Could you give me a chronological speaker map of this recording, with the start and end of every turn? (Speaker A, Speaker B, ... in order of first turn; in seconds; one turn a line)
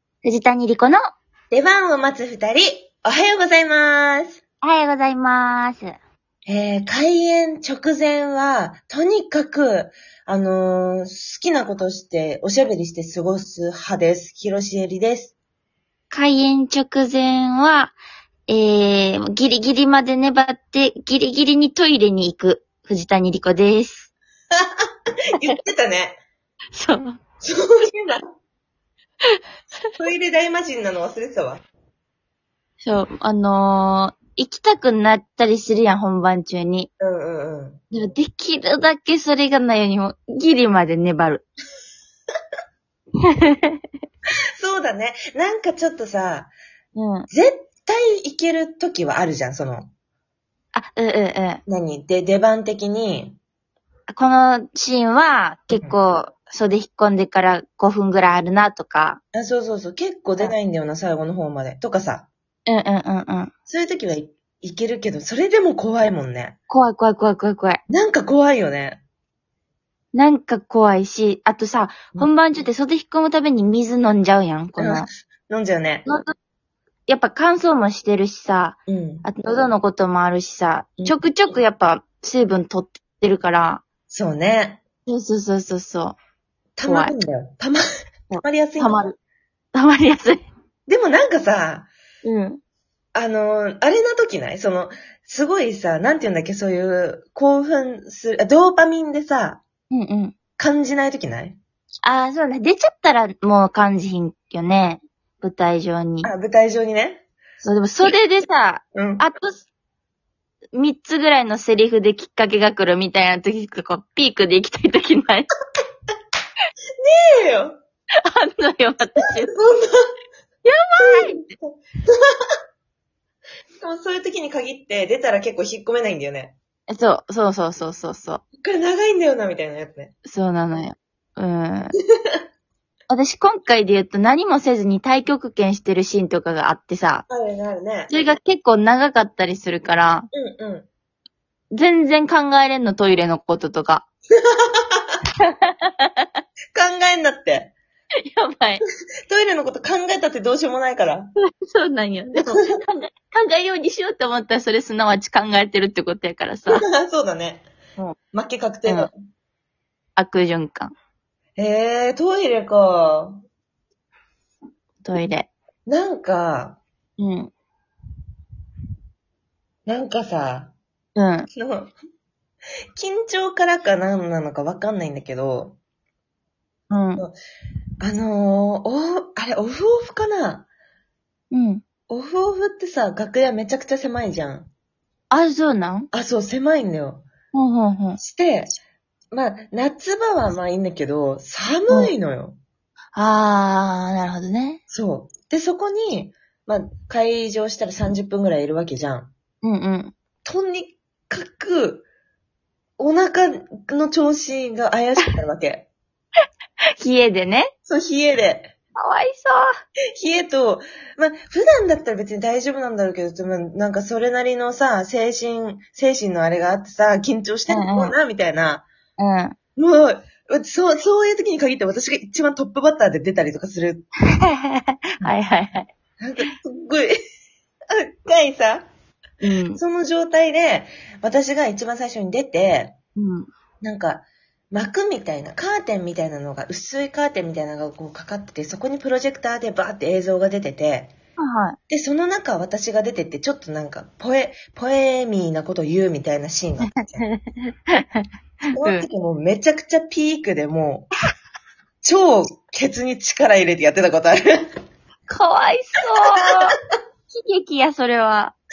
Speaker A: 0.2-1.0
Speaker B: 1.5-4.4
Speaker A: 4.6-5.9
Speaker B: 6.5-15.3
Speaker A: 16.1-24.1
Speaker B: 24.6-26.2
Speaker A: 26.7-27.2
Speaker B: 27.4-28.3
Speaker B: 30.0-31.6
Speaker A: 32.8-36.9
Speaker B: 37.0-37.8
Speaker A: 37.9-41.4
Speaker A: 43.2-43.8
Speaker B: 44.6-46.5
Speaker A: 46.9-47.3
Speaker B: 47.3-49.9
Speaker A: 50.7-51.6
Speaker B: 51.7-53.4
Speaker A: 54.1-59.2
Speaker B: 55.7-56.0
Speaker B: 59.3-62.3
Speaker A: 62.7-63.5
Speaker B: 63.7-66.6
Speaker A: 66.7-67.8
Speaker B: 67.9-69.0
Speaker A: 70.1-75.1
Speaker B: 74.8-76.0
Speaker A: 76.0-76.3
Speaker A: 77.1-83.8
Speaker B: 78.9-79.3
Speaker B: 84.1-84.8
Speaker A: 85.1-86.2
Speaker B: 86.8-87.8
Speaker A: 86.8-87.1
Speaker A: 88.3-89.2
Speaker B: 88.4-89.0
Speaker A: 89.7-90.4
Speaker B: 90.9-91.9
Speaker A: 92.2-92.6
Speaker B: 93.1-99.6
Speaker A: 99.9-100.3
Speaker B: 100.6-101.6
Speaker A: 102.0-106.3
Speaker B: 106.2-107.2
Speaker A: 107.6-109.6
Speaker B: 108.9-109.2
Speaker A: 110.7-115.5
Speaker B: 117.0-117.8
Speaker A: 118.2-119.5
Speaker B: 119.2-120.0
Speaker A: 120.6-121.4
Speaker B: 121.0-122.3
Speaker B: 123.8-126.5
Speaker A: 126.9-128.4
Speaker B: 128.6-130.1
Speaker A: 130.2-131.9
Speaker B: 132.2-132.4
Speaker A: 133.1-137.2
Speaker B: 137.3-138.1
Speaker A: 138.1-140.3
Speaker B: 140.3-140.9
Speaker A: 141.7-144.0
Speaker B: 144.4-145.2
Speaker A: 145.4-146.3
Speaker B: 146.7-147.7
Speaker A: 148.2-148.8
Speaker B: 149.3-151.3
Speaker A: 151.4-156.9
Speaker B: 152.3-152.7
Speaker B: 156.7-157.7
Speaker B: 158.3-159.1
Speaker A: 160.2-160.9
Speaker B: 161.6-163.4
Speaker A: 165.0-165.5
Speaker B: 165.8-166.8
Speaker A: 167.2-167.5
Speaker B: 169.8-170.7
Speaker A: 171.2-171.5
Speaker B: 171.5-171.9
Speaker B: 172.9-175.8
Speaker A: 176.9-177.2
Speaker B: 178.0-180.7
Speaker A: 181.5-181.8
Speaker B: 182.1-184.7
Speaker A: 185.3-186.1
Speaker B: 186.1-187.2
Speaker A: 187.5-188.2
Speaker B: 188.2-188.7
Speaker B: 189.3-192.6
Speaker A: 193.1-194.8
Speaker B: 194.9-199.3
Speaker A: 199.6-200.1
Speaker B: 200.4-202.1
Speaker B: 203.0-205.9
Speaker A: 207.0-207.7
Speaker B: 207.8-208.7
Speaker A: 208.9-209.7
Speaker B: 210.1-218.9
Speaker A: 217.7-218.1
Speaker A: 219.2-219.6
Speaker B: 219.8-224.1
Speaker A: 224.3-225.9
Speaker B: 226.2-227.1
Speaker B: 227.9-228.9
Speaker A: 229.4-229.8
Speaker B: 229.7-232.9
Speaker A: 233.2-233.5
Speaker B: 233.8-241.1
Speaker A: 241.4-241.8
Speaker B: 241.9-247.3
Speaker A: 246.8-249.1
Speaker B: 248.7-251.1
Speaker B: 252.0-254.7
Speaker A: 255.3-256.8
Speaker A: 257.3-258.5